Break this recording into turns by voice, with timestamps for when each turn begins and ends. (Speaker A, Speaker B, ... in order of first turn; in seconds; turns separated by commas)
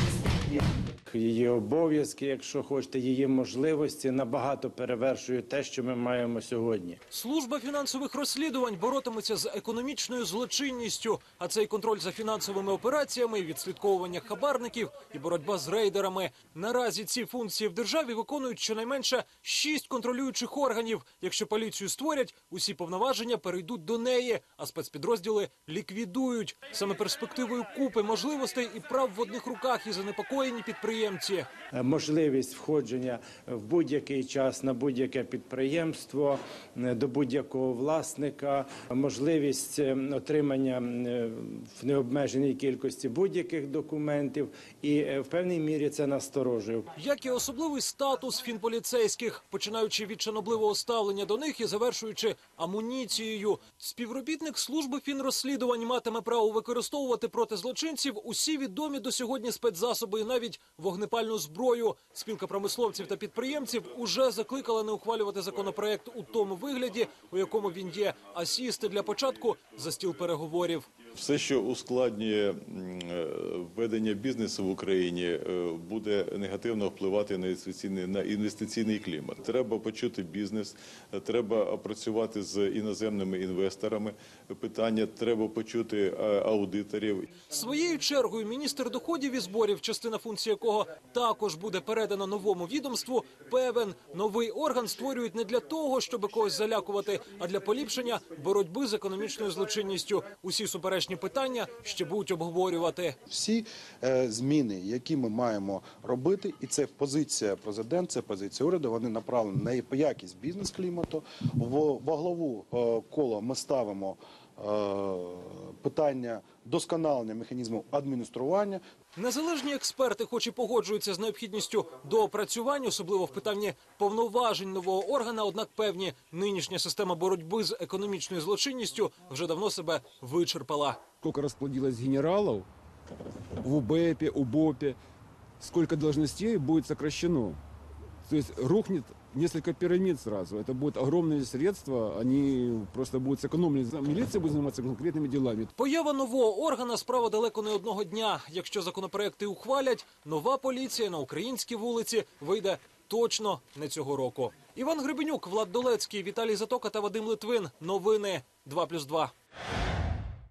Speaker A: 1.1-7.0, Speaker B: 7.1-31.5, Speaker A: 31.8-46.9, Speaker B: 47.0-70.9, Speaker C: 71.2-87.4, Speaker B: 87.5-103.2, Speaker D: 103.3-118.8, Speaker B: 119.2-131.1, Speaker E: 131.1-132.7, Speaker E: 133.6-135.0, Speaker E: 135.6-137.6, Speaker E: 138.3-145.7, Speaker B: 145.8-159.3